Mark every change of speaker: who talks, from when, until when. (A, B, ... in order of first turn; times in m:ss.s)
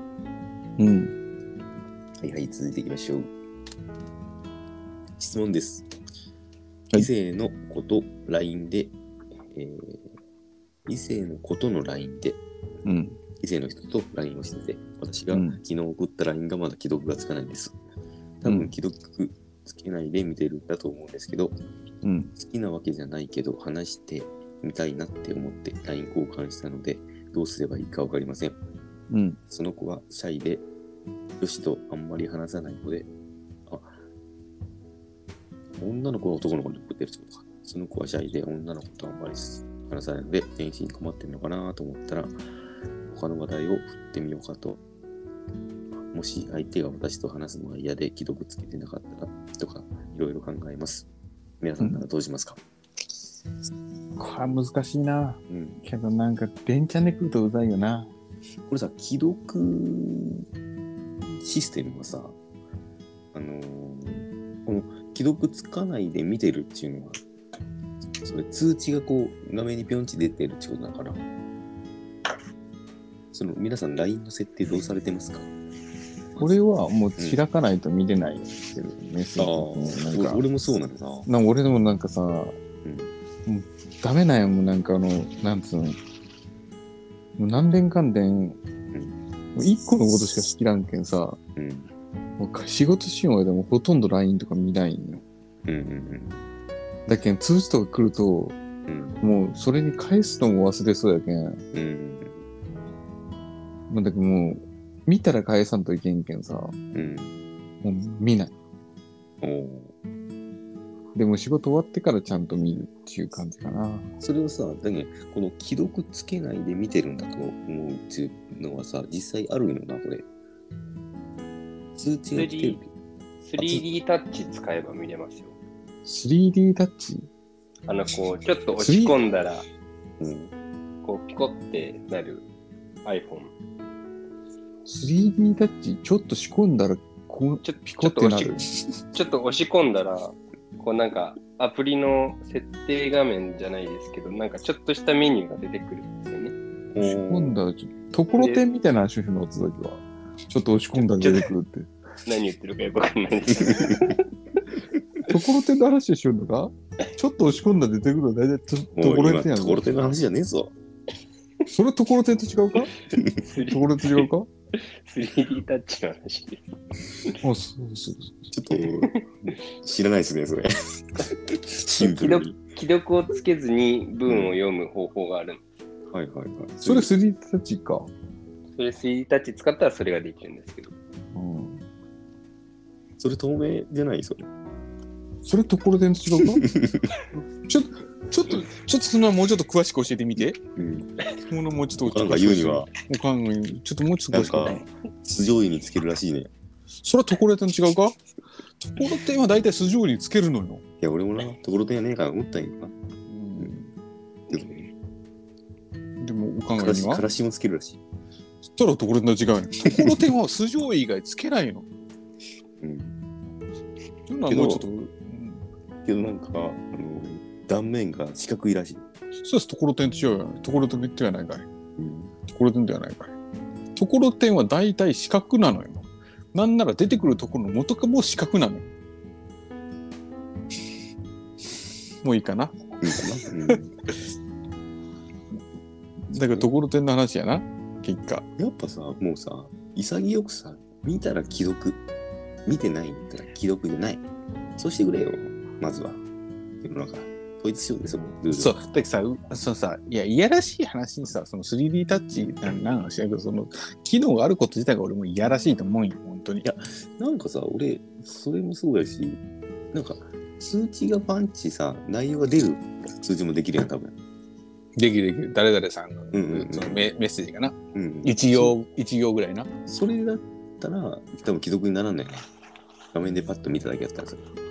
0:00.8-0:01.1 A
0:02.2-0:03.3 B
0:05.2-0:05.9 B
0:07.0-0:08.9 B
0:09.5-0:10.1 B
0:10.9-0:12.4 B
0:12.8-0:13.2 A
0:13.4-0:17.8 B
0:15.3-0:15.6 A
0:18.4-0:21.6 B
0:18.5-0:18.7 A
0:22.0-0:22.3 A
0:22.4-0:28.6 B
0:29.1-0:29.4 A
0:29.5-0:30.7 B
0:31.4-0:33.1 B
0:33.7-0:34.0 B
0:35.7-0:42.4 B
0:43.1-0:44.8 B
0:46.1-0:51.1 B
0:51.6-0:52.6 B
0:54.2-0:58.1 A
0:55.5-0:55.8 B
0:58.7-1:00.5 B
1:01.3-1:02.4 B
1:03.3-1:07.2 B
1:08.2-1:11.2 B
1:13.3-1:15.5 B
1:16.4-1:20.4 A
1:19.4-1:21.3 B
1:21.3-1:22.6 A
1:22.8-1:23.1 B
1:23.5-1:26.0 A
1:27.4-1:28.6 A
1:28.9-1:29.2 B
1:29.6-1:31.4 A
1:31.6-1:31.9 B
1:32.4-1:35.2 A
1:35.7-1:36.5 B
1:37.1-1:38.6 A
1:38.9-1:39.2 B
1:39.2-1:41.6 A
1:41.7-1:42.4 B
1:43.9-1:46.8 A
1:46.9-1:47.4 B
1:47.8-1:48.5 A
1:49.4-1:49.9 B
1:51.2-1:54.1 A
1:54.2-2:00.3 B
2:02.0-2:02.8 B
2:02.3-2:02.8 C
2:03.4-2:05.6 C
2:03.6-2:03.8 B
2:06.0-2:07.3 A
2:07.9-2:09.7 C
2:08.8-2:09.2 A
2:10.2-2:10.5 B
2:11.0-2:12.5 C
2:13.0-2:13.5 C
2:14.9-2:18.7 A
2:17.6-2:18.6 C
2:19.1-2:26.6 C
2:26.9-2:27.6 B
2:27.0-2:31.9 A
2:28.3-2:28.6 C
2:31.0-2:31.5 C
2:32.3-2:34.2 C
2:35.3-2:40.2 A
2:39.0-2:40.7 B
2:41.7-2:42.9 A
2:43.1-2:43.4 B
2:43.4-2:46.6 C
2:43.7-2:44.5 A
2:47.4-2:48.5 A
2:48.5-2:52.6 B
2:52.0-2:55.6 C
2:54.3-2:54.6 B
2:56.1-2:57.1 B
2:56.8-2:58.1 A
2:58.8-3:01.0 C
3:01.3-3:01.8 A
3:03.2-3:04.5 B
3:05.4-3:06.6 A
3:06.4-3:07.1 B
3:07.7-3:10.6 A
3:10.4-3:11.1 B
3:11.5-3:14.9 A
3:12.0-3:12.9 B
3:14.3-3:16.5 B
3:17.0-3:18.2 A
3:18.8-3:20.8 A
3:21.0-3:23.0 B
3:23.3-3:23.9 A
3:24.5-3:24.9 B
3:26.2-3:27.2 A
3:26.8-3:28.0 B
3:28.7-3:31.9 A
3:29.9-3:30.2 B
3:32.8-3:33.2 B
3:34.3-3:35.6 A
3:34.5-3:34.9 B
3:36.0-3:39.0 B
3:39.4-3:41.7 A
3:42.0-3:42.3 B
3:42.5-3:43.3 A
3:44.0-3:48.9 A
3:52.2-3:52.8 A
3:53.0-3:53.9 B
3:56.3-3:56.7 B
3:56.3-3:58.5 A
3:58.6-4:02.0 B
4:02.7-4:04.2 B
4:04.8-4:06.2 B
4:06.8-4:08.8 B
4:08.5-4:16.6 A
4:16.6-4:19.4 B
4:19.9-4:24.2 B
4:25.0-4:29.7 A
4:26.3-4:27.0 B
4:27.9-4:28.8 B
4:29.9-4:32.5 B
4:33.1-4:34.5 B